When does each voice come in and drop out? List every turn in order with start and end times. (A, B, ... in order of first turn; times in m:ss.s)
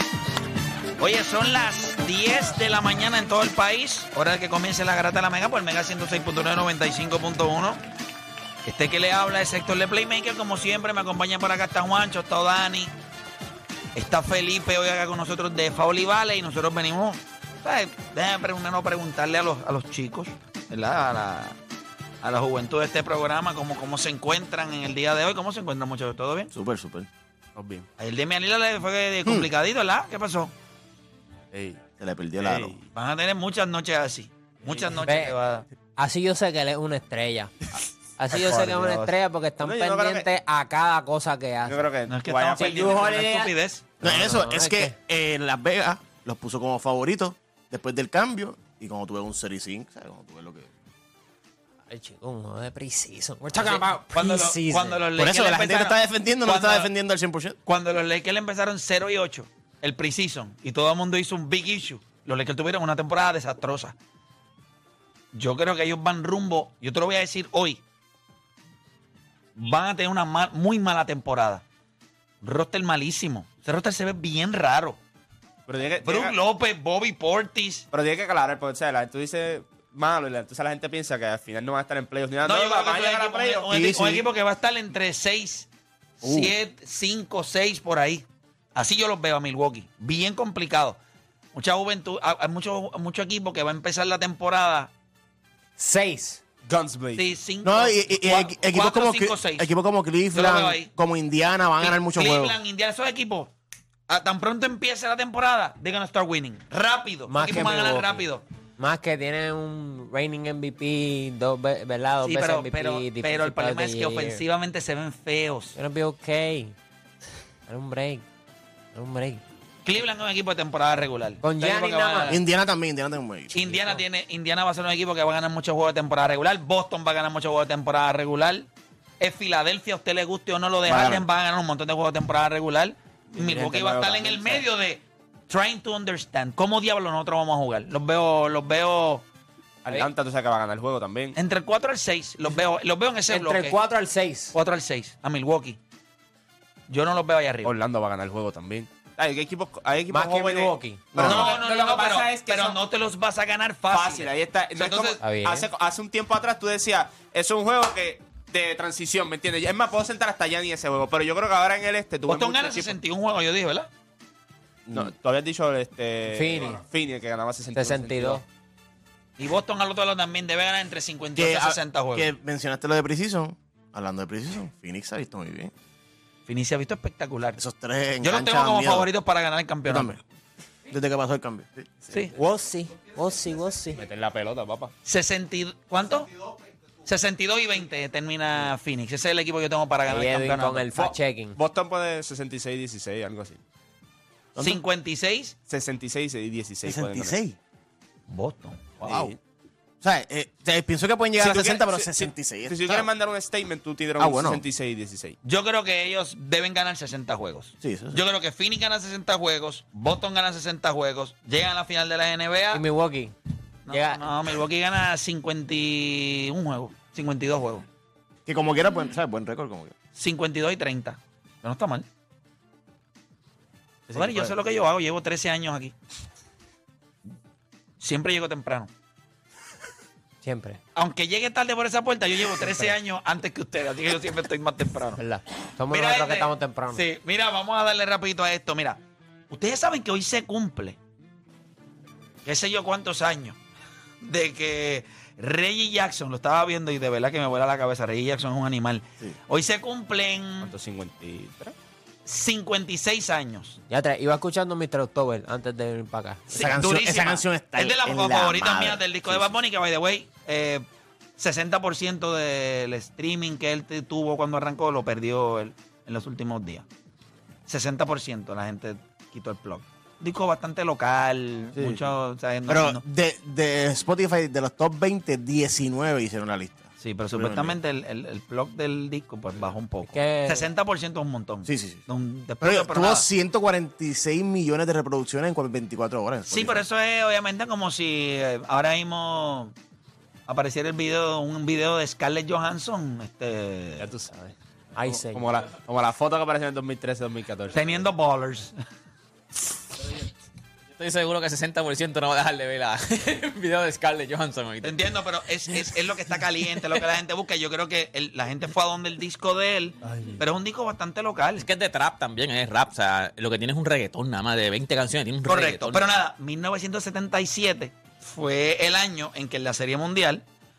0:01.0-0:07.8 A
0:08.6-0:12.9 A
0:14.0-0:21.6 A
0:22.2-0:26.5 A
0:26.5-0:27.1 B
0:27.6-0:27.9 C
0:28.0-0:30.5 A
0:31.5-0:31.8 C
0:32.0-0:32.8 B
0:32.4-0:32.8 C
0:32.9-0:35.6 A
0:34.6-0:35.0 C
0:35.0-0:35.4 D
0:36.0-0:37.5 D
0:38.2-0:41.9 D
0:38.3-0:39.1 A
0:39.6-0:40.3 C
0:41.7-0:43.0 C
0:42.1-0:43.8 A
0:42.6-0:45.0 D
0:44.0-0:50.7 B
0:51.9-0:55.0 D
0:54.1-0:56.9 A
0:55.2-0:57.6 B
0:57.7-1:04.0 A
1:05.3-1:07.8 A
1:09.6-1:11.6 A
1:12.4-1:15.0 A
1:15.7-1:16.4 C
1:16.0-1:17.9 A
1:17.9-1:23.7 C
1:22.4-1:25.7 A
1:23.7-1:24.2 B
1:26.2-1:31.0 A
1:26.2-1:26.5 B
1:31.5-1:34.9 A
1:35.8-1:36.4 D
1:36.7-1:37.3 C
1:37.2-1:39.7 A
1:37.6-1:42.6 B
1:40.3-1:40.9 A
1:41.8-1:43.5 A
1:44.1-1:48.4 A
1:47.3-1:48.2 D
1:48.8-1:54.4 D
1:52.2-1:55.8 A
1:55.8-1:56.8 D
1:57.7-1:58.2 D
1:58.9-1:59.4 D
1:59.8-2:02.4 A
2:01.4-2:02.4 D
2:02.3-2:03.8 B
2:03.5-2:08.7 A
2:09.2-2:19.2 A
2:10.8-2:11.3 B
2:13.4-2:14.6 C
2:19.8-2:21.4 C
2:21.4-2:23.8 A
2:23.3-2:24.6 D
2:24.5-2:25.8 A
2:26.9-2:27.8 A
2:27.6-2:32.8 C
2:30.1-2:31.5 D
2:31.2-2:35.2 A
2:33.9-2:43.0 C
2:35.2-2:35.7 D
2:42.3-2:43.9 A
2:44.9-2:48.4 C
2:46.3-2:46.8 D
2:47.7-2:48.4 D
2:49.4-2:52.3 A
2:51.4-2:55.7 B
2:56.5-2:57.6 A
2:57.6-2:59.1 B
2:58.2-3:00.2 A
2:59.9-3:00.2 B
3:00.9-3:02.0 B
3:02.4-3:04.0 D
3:04.0-3:04.9 C
3:05.0-3:06.3 A
3:07.0-3:10.9 A
3:10.1-3:11.6 D
3:11.0-3:13.6 C
3:14.6-3:14.8 B
3:14.6-3:15.6 A
3:15.7-3:17.4 C
3:16.8-3:17.6 B
3:18.3-3:19.0 A
3:19.0-3:19.4 C
3:19.0-3:19.4 B
3:20.0-3:23.1 B
3:21.4-3:25.4 C
3:24.2-3:24.6 B
3:25.4-3:32.8 A
3:27.8-3:28.2 B
3:32.7-3:33.3 D
3:33.9-3:37.9 A
3:33.9-3:34.2 D
3:38.5-3:39.9 B
3:40.2-3:42.0 A
3:44.1-3:44.5 B
3:44.1-3:45.9 A
3:48.0-3:48.9 A
3:50.4-3:50.8 D
3:51.0-3:55.2 A
3:55.2-3:57.0 D
3:55.9-4:01.0 A
4:02.4-4:03.6 A
4:04.2-4:10.7 A
4:10.6-4:11.8 C
4:12.3-4:13.8 A
4:13.9-4:16.6 D
4:16.5-4:20.8 A
4:16.6-4:19.5 B
4:21.4-4:26.8 A
4:27.7-4:33.0 A
4:31.8-4:32.0 B
4:32.7-4:37.8 B
4:37.0-4:43.3 A
4:40.1-4:40.6 D
4:41.7-4:42.0 B
4:42.6-4:46.8 B
4:46.5-4:49.7 A
4:50.5-4:54.1 A
4:54.0-4:54.5 C
4:55.0-4:55.5 D
4:55.2-4:58.0 C
4:57.7-4:58.7 A
5:01.0-5:05.0 E
5:04.8-5:11.7 A
5:10.0-5:10.4 C
5:11.6-5:16.1 E
5:15.4-5:20.4 A